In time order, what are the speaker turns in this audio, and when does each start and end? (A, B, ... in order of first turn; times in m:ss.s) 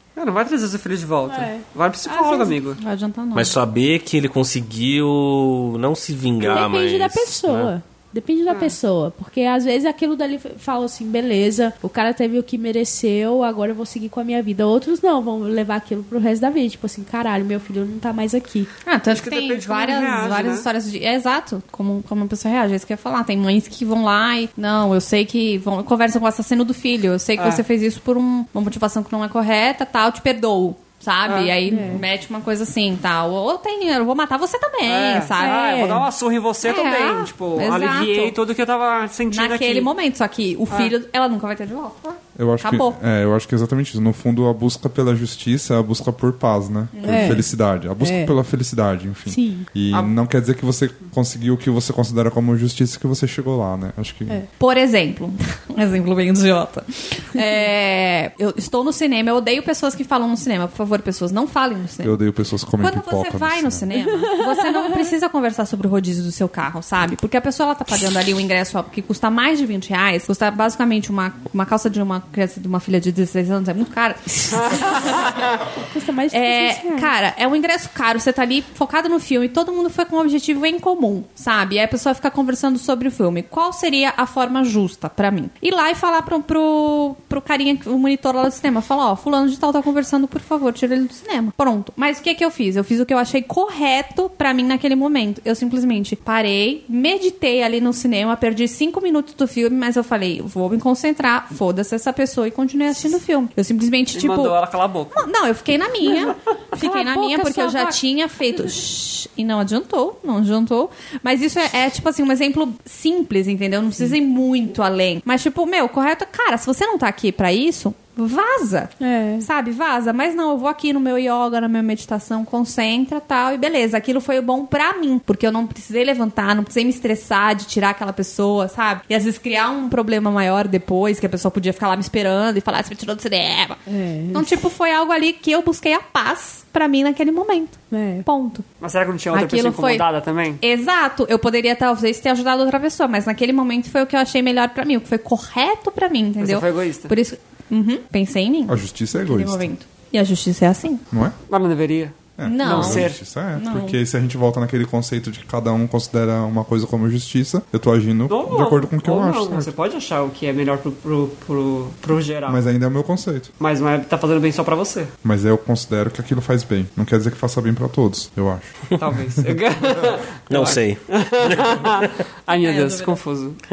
0:00.2-0:02.8 A
0:01.3-0:02.6 B
0:02.8-0:03.6 C
0:03.3-0:07.7 D
0:06.4-0:18.7 B
0:08.5-0:08.8 A
0:18.8-0:35.6 C
0:19.1-0:20.7 A
0:27.4-0:27.6 A
0:31.3-0:31.6 A
0:31.7-0:32.1 B
0:34.9-0:39.9 A
0:35.4-0:36.1 B
0:36.6-0:38.4 C
0:39.3-0:43.0 C
0:42.4-0:54.4 E
0:46.9-0:47.4 C
0:47.1-0:47.5 B
0:48.0-0:48.3 B
0:49.3-0:49.7 B
0:54.6-1:02.2 C
1:02.0-1:03.9 E
1:02.8-1:15.4 C
1:03.9-1:05.1 B
1:14.5-1:15.6 A
1:15.8-1:17.1 B
1:16.3-1:44.6 C
1:44.1-1:45.2 A
1:45.1-2:13.8 C
1:46.0-1:48.7 B
1:59.0-1:59.5 B
2:13.9-2:14.5 B
2:14.3-2:18.6 C
2:17.9-2:18.3 B
2:18.8-2:20.6 A
2:19.3-2:20.0 C
2:20.6-2:31.0 C
2:26.4-2:27.2 A
2:28.7-2:29.7 E
2:31.5-2:33.2 A
2:32.4-2:39.7 E
2:32.4-2:34.0 C
2:38.3-2:42.7 A
2:42.5-2:43.5 E
2:43.6-2:45.1 A
2:45.2-2:48.8 E
2:49.0-2:53.6 A
2:50.5-2:52.1 D
2:52.5-2:53.2 C